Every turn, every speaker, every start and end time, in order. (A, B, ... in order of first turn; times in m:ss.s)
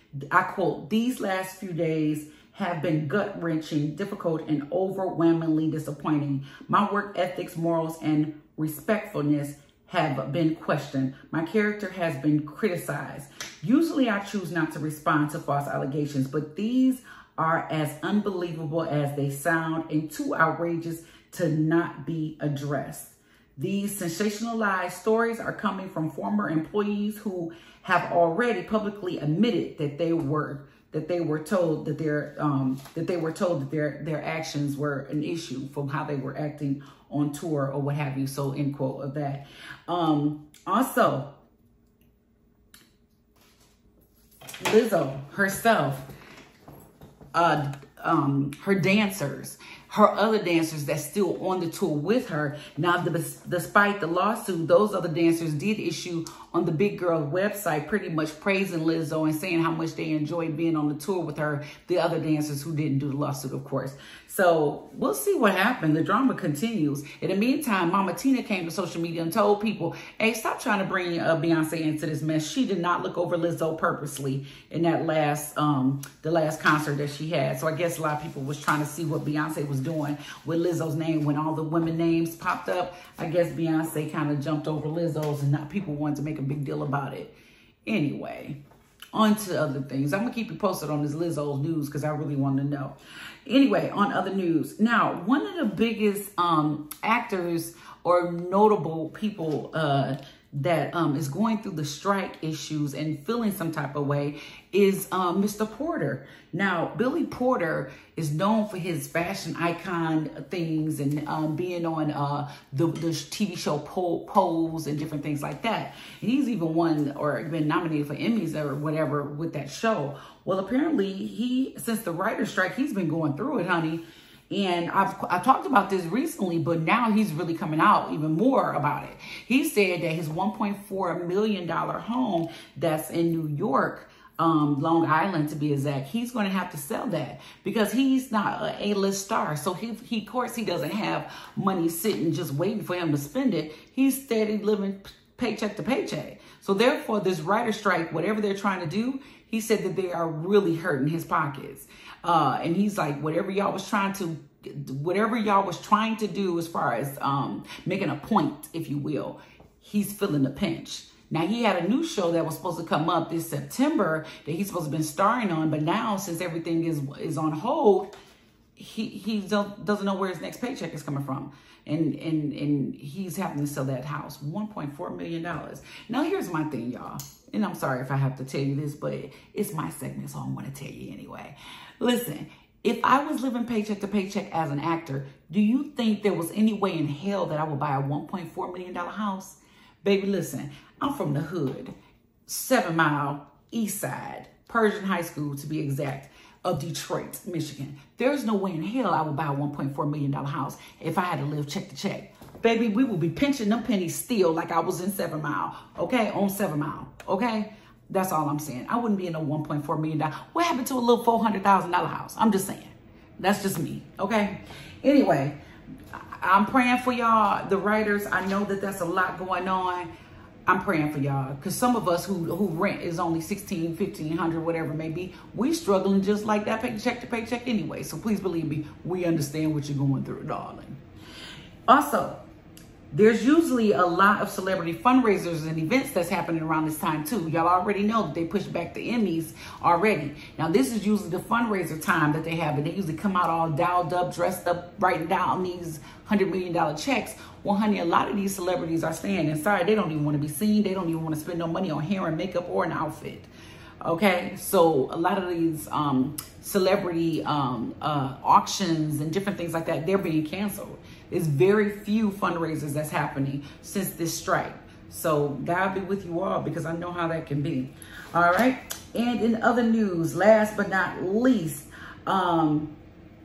0:00.3-0:41.3 A
0:44.6-0:46.1 A
0:47.3-1:27.3 A
1:27.9-1:28.6 A
1:29.1-2:48.1 A
2:48.8-3:11.9 A
3:12.5-3:35.6 A
3:36.2-3:40.1 A
3:40.7-3:51.0 A
3:51.9-3:52.4 A
3:53.1-4:13.5 A
4:14.0-4:32.9 A